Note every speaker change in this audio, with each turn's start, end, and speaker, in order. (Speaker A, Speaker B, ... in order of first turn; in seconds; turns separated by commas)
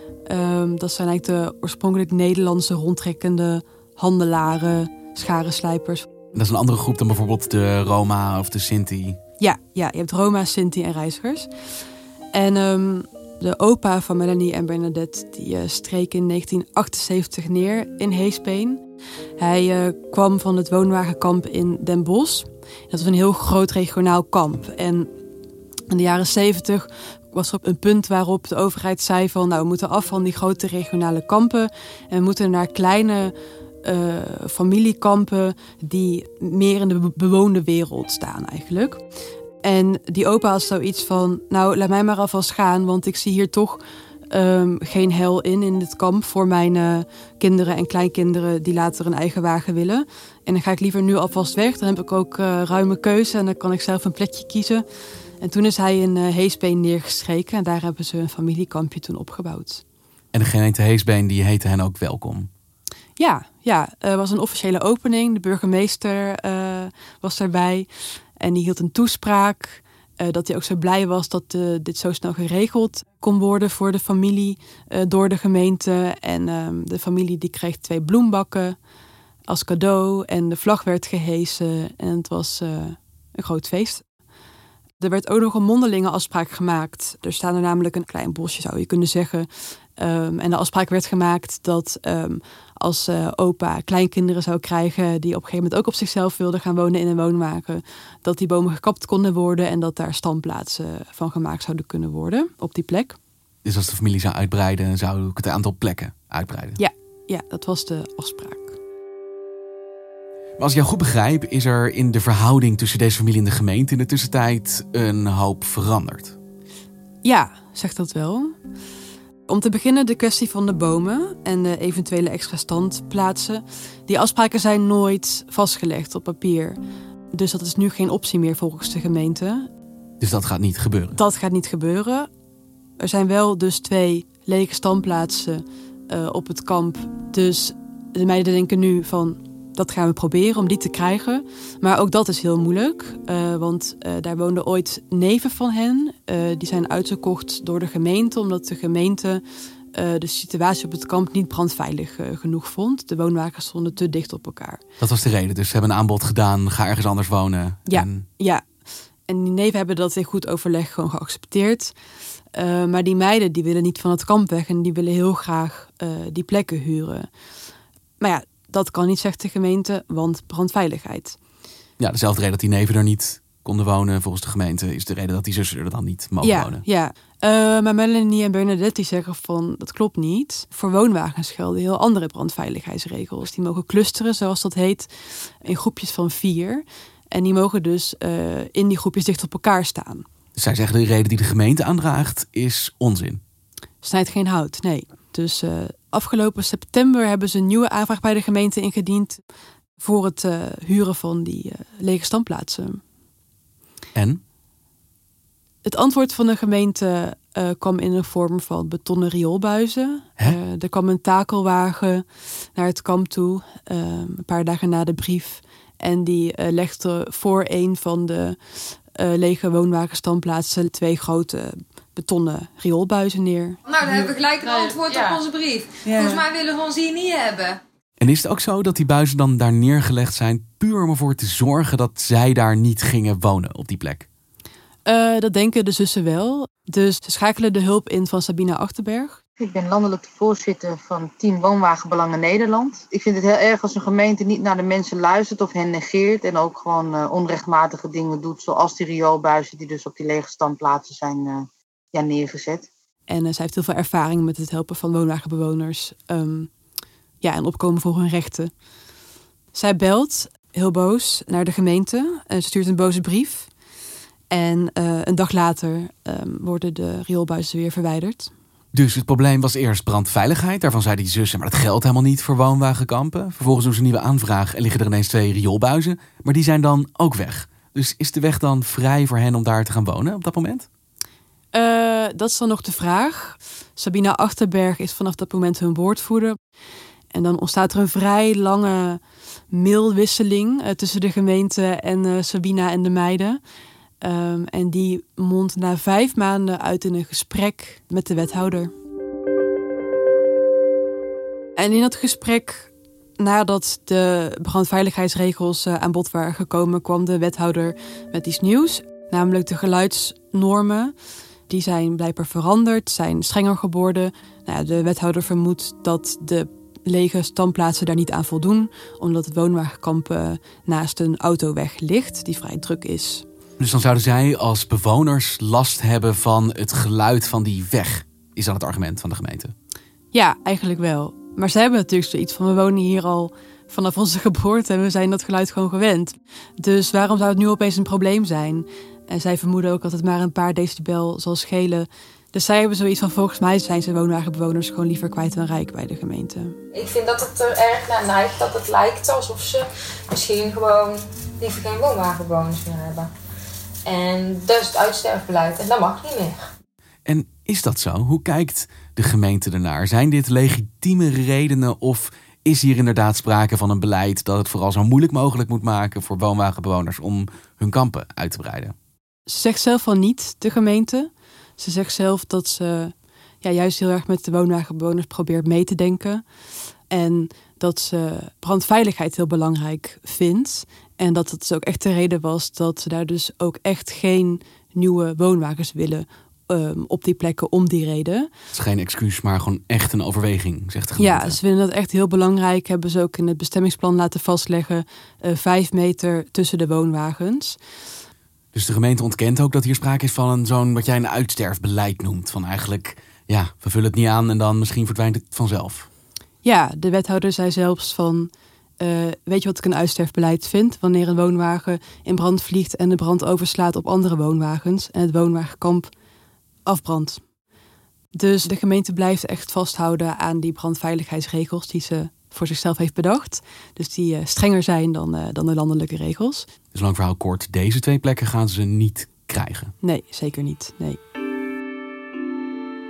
Speaker A: 0.3-6.1, Speaker B: 6.3-9.2, Speaker A: 9.4-11.5, Speaker A: 12.3-18.8, Speaker A: 19.4-25.1, Speaker A: 25.9-39.0, Speaker A: 39.6-54.9, Speaker A: 55.4-59.8, Speaker B: 60.3-62.5, Speaker A: 63.2-67.9, Speaker A: 68.4-78.8, Speaker A: 79.5-84.0, Speaker A: 85.0-103.2, Speaker B: 103.6-106.8, Speaker A: 106.8-108.8, Speaker B: 110.6-116.4, Speaker A: 117.2-118.6, Speaker A: 119.5-126.8, Speaker A: 127.3-129.7, Speaker B: 130.2-131.2, Speaker A: 131.1-132.3, Speaker A: 133.0-154.8, Speaker B: 155.0-158.2, Speaker A: 157.9-158.6, Speaker A: 159.3-161.9, Speaker A: 162.5-167.3, Speaker A: 168.2-171.4, Speaker B: 172.0-176.8, Speaker A: 176.4-190.2, Speaker B: 190.6-193.4, Speaker A: 194.0-199.4, Speaker A: 200.0-203.0, Speaker B: 204.2-204.4, Speaker A: 205.8-218.6, Speaker A: 219.2-223.8, Speaker C: 223.9-227.8, Speaker D: 224.0-225.5, Speaker D: 226.1-226.4, Speaker B: 228.2-234.3, Speaker A: 235.1-239.4, Speaker E: 239.6-252.9, Speaker A: 253.3-256.7, Speaker A: 257.4-258.7, Speaker A: 259.7-263.7, Speaker A: 264.5-268.5, Speaker B: 268.9-280.9, Speaker A: 281.7-286.6, Speaker A: 287.3-293.6, Speaker A: 294.2-298.9, Speaker A: 301.8-311.1, Speaker A: 311.7-323.4, Speaker B: 323.8-329.7, Speaker A: 330.3-346.8, Speaker D: 346.9-353.3, Speaker D: 354.1-356.6, Speaker B: 357.3-368.9, Speaker A: 369.5-376.4, Speaker A: 377.1-388.5, Speaker B: 388.7-391.6, Speaker A: 391.2-397.8, Speaker B: 398.7-406.1, Speaker A: 406.6-416.1, Speaker A: 416.9-417.4, Speaker A: 418.3-426.7, Speaker B: 426.9-429.9, Speaker A: 430.0-431.2